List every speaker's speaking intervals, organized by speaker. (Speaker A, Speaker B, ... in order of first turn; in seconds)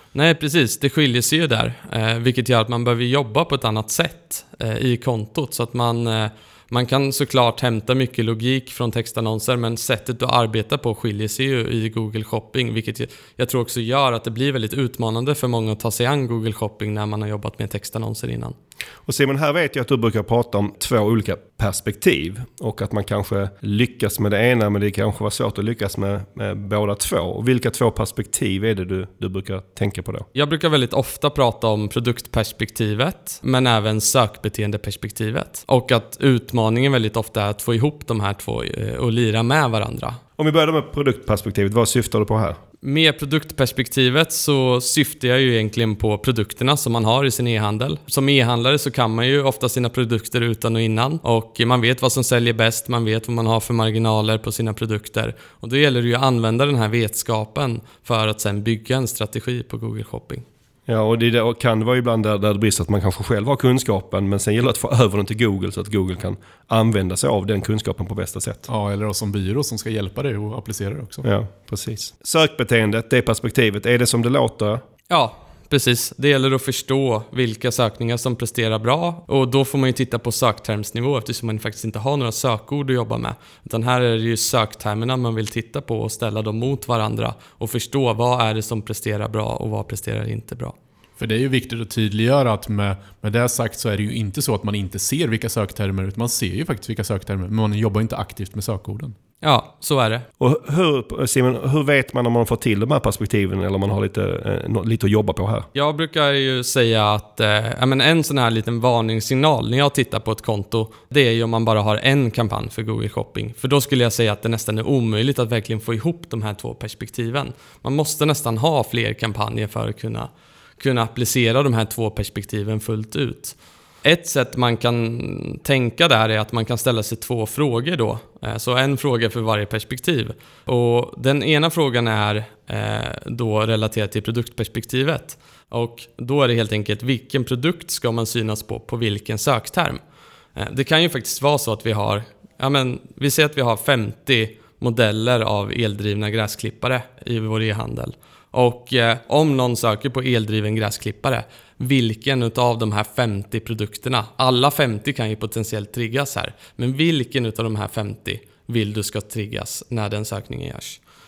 Speaker A: 0.1-18.5, 30.3-40.2, 42.8-60.4, 75.1-90.7, 99.4-100.2, 105.7-140.0, 140.6-161.0
Speaker B: 19.1-30.3, 40.4-42.6, 60.9-68.6, 71.2-74.8, 100.4-105.7
Speaker C: 68.7-71.2, 91.2-99.1